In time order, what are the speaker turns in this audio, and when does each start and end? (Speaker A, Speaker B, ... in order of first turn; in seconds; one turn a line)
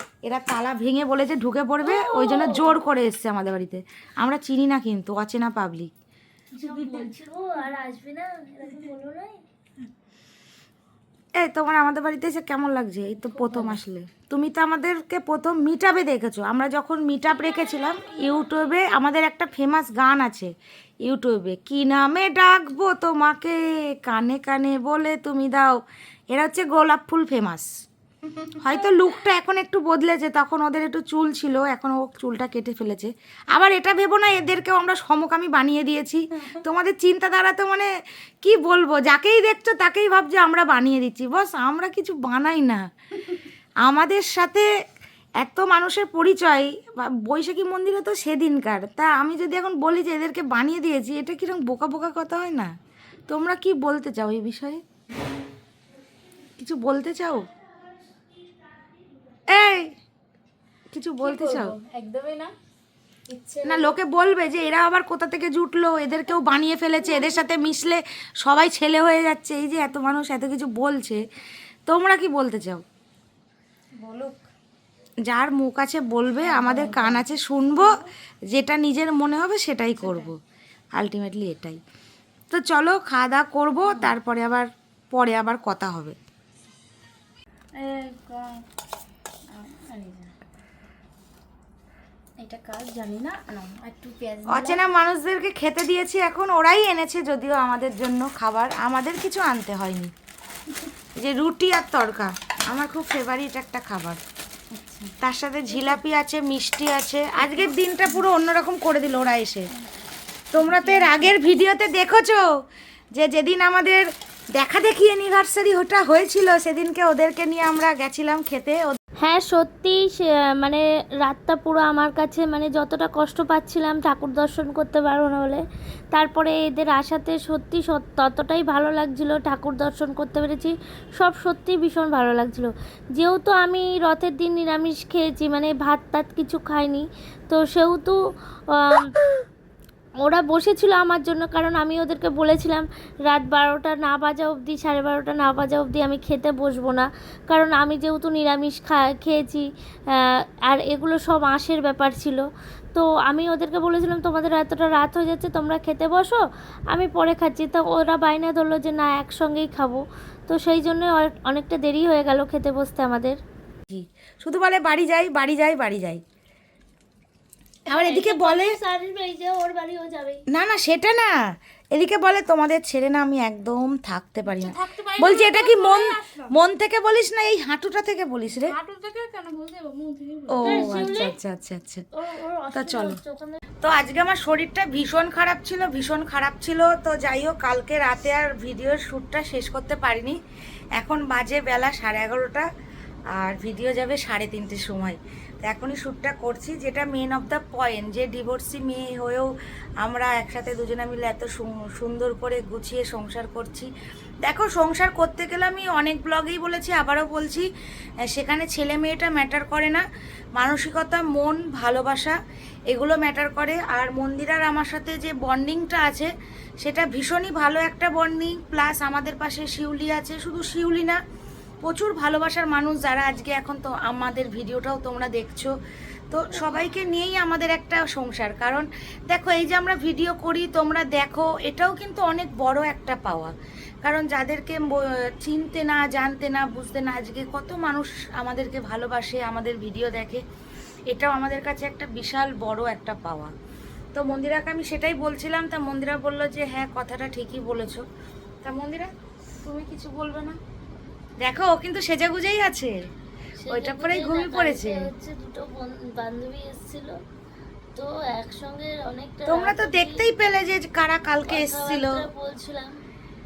Speaker A: 0.2-5.9
Speaker B: 1.8-2.8
Speaker B: 6.5-9.4
Speaker A: 11.4-20.5
Speaker A: 21.0-25.8
Speaker A: 26.3-27.7
Speaker A: 28.6-37.9
Speaker A: 38.4-42.9
Speaker A: 43.8-44.7
Speaker A: 45.4-52.7
Speaker A: 53.3-54.8
Speaker A: 56.6-57.5
Speaker B: 58.4-58.9
Speaker A: 59.5-60.0
Speaker A: 60.9-61.8
Speaker C: 61.2-62.5
Speaker C: 63.3-63.9
Speaker A: 63.6-71.2
Speaker A: 71.9-72.8
Speaker C: 74.0-74.4
Speaker A: 75.2-78.0
Speaker C: 76.5-77.3
Speaker A: 78.5-80.4
Speaker C: 80.0-80.3
Speaker A: 80.9-81.8
Speaker A: 82.5-86.2
Speaker C: 87.8-88.6
Speaker C: 89.5-90.3
Speaker C: 92.4-94.8
Speaker A: 94.5-100.1
Speaker A: 101.2-104.2
Speaker C: 104.7-105.1
Speaker A: 105.2-109.7
Speaker A: 110.5-112.5
Speaker C: 110.7-111.2
Speaker A: 113.1-119.0
Speaker B: 119.2-138.2
Speaker B: 138.7-139.1
Speaker B: 140.2-152.4
Speaker B: 152.9-156.4
Speaker B: 156.9-163.4
Speaker A: 163.9-166.2
Speaker A: 167.9-168.7
Speaker B: 167.9-170.4
Speaker A: 170.5-171.4
Speaker A: 171.9-178.7
Speaker C: 174.5-176.5
Speaker C: 178.5-180.9
Speaker A: 180.5-182.0
Speaker B: 180.6-181.4
Speaker B: 182.1-183.6
Speaker A: 182.7-183.2
Speaker A: 183.8-190.4
Speaker A: 191.0-192.7
Speaker A: 193.3-199.5
Speaker A: 200.0-203.9
Speaker A: 204.4-207.7
Speaker A: 208.3-210.0
Speaker A: 210.6-212.4
Speaker A: 212.9-221.2
Speaker A: 221.8-225.7
Speaker A: 226.3-240.4
Speaker B: 226.5-226.9
Speaker A: 241.1-243.5
Speaker A: 244.1-248.0
Speaker A: 248.6-249.1
Speaker A: 249.6-250.6
Speaker A: 251.4-252.9
Speaker B: 253.6-257.1
Speaker A: 253.7-255.1
Speaker B: 257.9-260.3
Speaker A: 259.5-262.2
Speaker B: 261.4-262.9